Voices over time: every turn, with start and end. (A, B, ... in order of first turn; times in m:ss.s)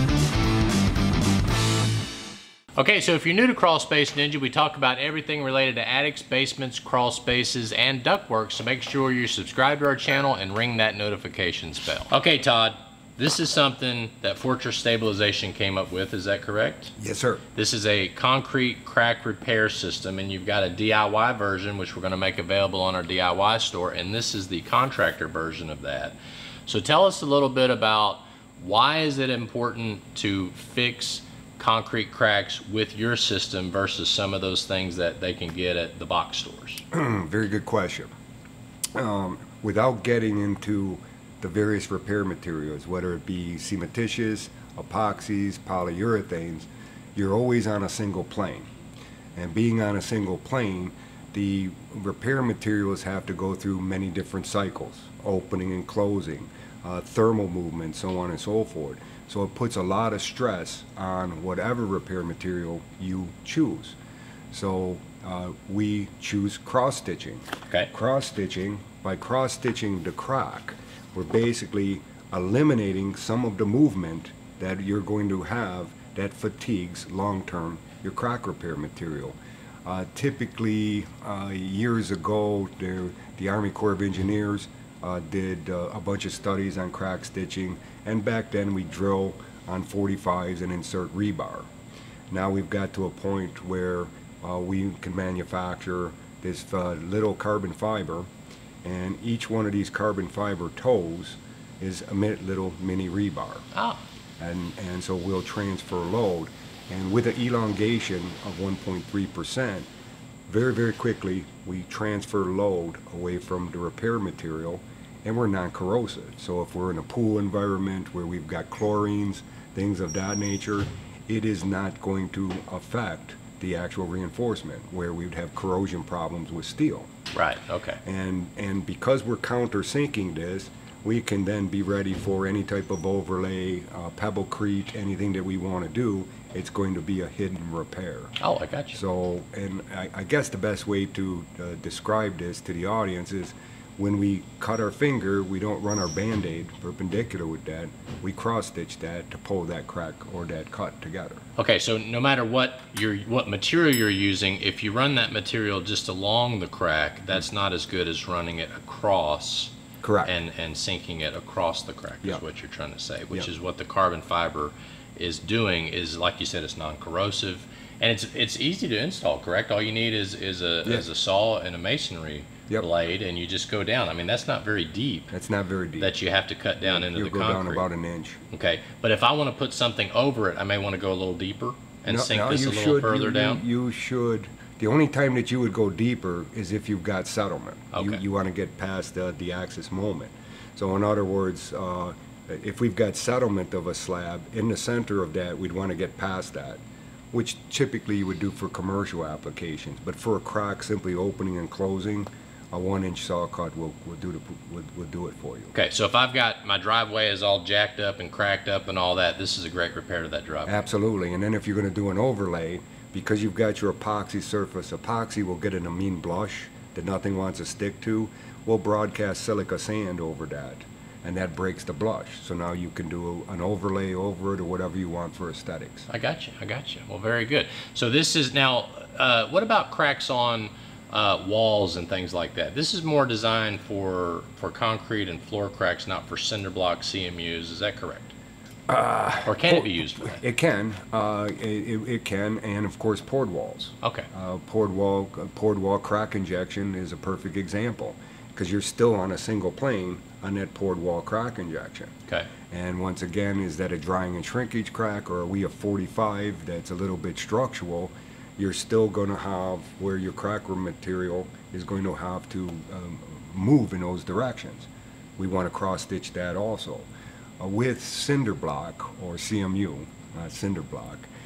0:02.8-0:16.9 A
0:17.0-0:17.4 B
0:17.6-0:26.2 A
0:26.7-0:36.8 A
0:36.9-0:38.1 B
0:39.0-0:48.7 B
0:49.4-1:04.0 B
1:04.5-1:31.7 B
1:32.3-1:38.3 B
1:38.8-1:43.7 B
1:43.7-1:44.0 A
1:44.4-1:49.9 B
1:50.5-2:07.1 B
2:07.3-2:08.0 A
2:08.0-2:18.4 B
2:18.4-2:19.0 A
2:18.9-2:31.4 B
2:31.6-2:55.3 A
2:40.0-2:40.3 B
2:55.3-2:56.2 B
2:56.0-2:57.9 A
2:56.8-2:58.4 B
2:58.5-3:03.6 A
3:02.1-3:25.7 B
3:07.9-3:08.2 A
3:25.7-3:30.8 A
3:30.7-3:46.1 B
3:46.1-3:58.3 A
3:58.9-4:12.1 B
3:59.4-4:00.4 A
4:04.0-4:04.3 A
4:12.7-4:27.1 B
4:27.6-4:31.3 B